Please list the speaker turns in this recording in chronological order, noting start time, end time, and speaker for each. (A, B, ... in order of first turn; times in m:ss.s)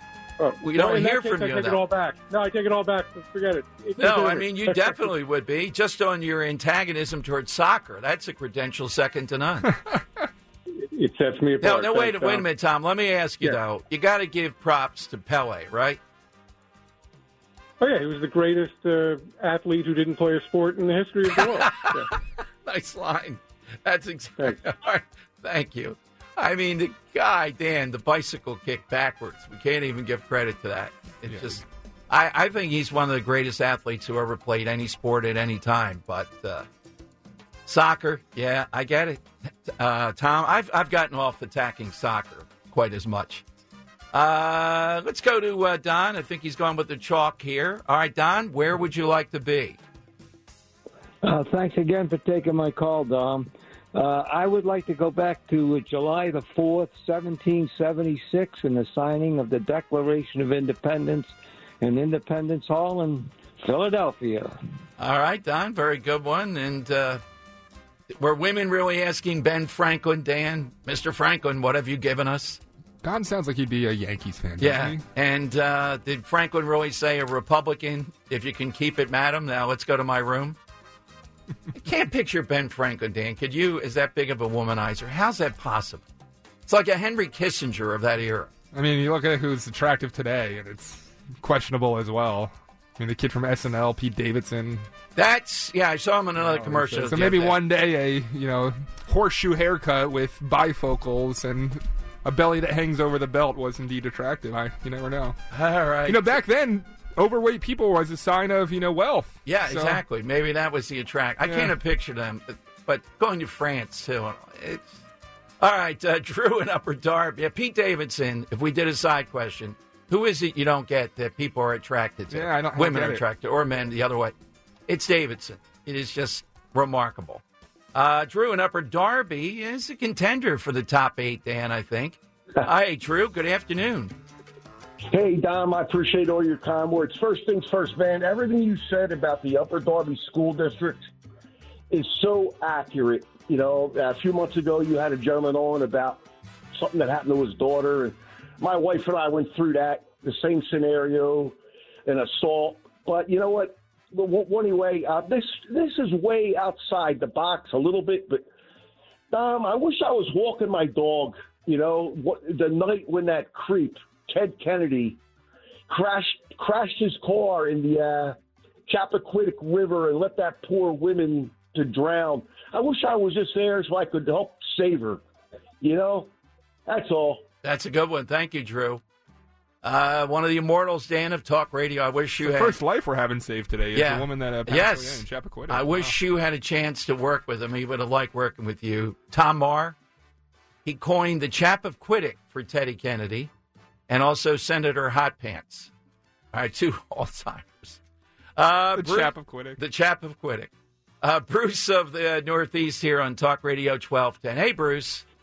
0:00.4-0:05.1 A
0:00.6-0:01.8 B
0:04.0-0:09.7 B
0:10.8-0:12.5 A
0:11.6-0:16.0 B
0:17.8-0:22.1 A
0:21.4-0:36.7 B
0:31.3-0:31.6 C
0:37.7-0:43.4 B
0:44.1-0:49.8 B
0:51.2-1:04.6 D
1:05.0-1:07.2 B
1:08.1-1:12.6 B
1:13.0-1:15.0 C
1:14.6-1:20.6 B
1:21.7-1:26.1 B
1:26.7-1:28.5 B
1:28.7-1:34.9 C
1:35.2-1:37.6 B
1:36.4-1:45.4 C
1:45.5-1:46.4 B
1:46.1-1:50.0 C
1:49.4-1:55.0 B
1:51.4-1:51.7 C
1:55.6-2:04.3 B
2:02.3-2:03.2 C
2:04.9-2:07.4 B
2:07.9-2:14.1 B
2:15.1-2:21.1 E
2:21.9-2:26.2 E
2:26.7-2:38.5 E
2:39.3-2:45.2 E
2:45.9-2:55.2 E
2:55.8-2:56.3 E
2:56.9-2:57.4 E
2:57.6-2:59.0 B
2:59.8-3:02.8 B
3:02.4-3:06.1 C
3:03.9-3:10.0 B
3:10.8-3:13.5 B
3:14.1-3:15.9 B
3:16.5-3:18.0 B
3:18.6-3:25.3 B
3:19.0-3:19.8 C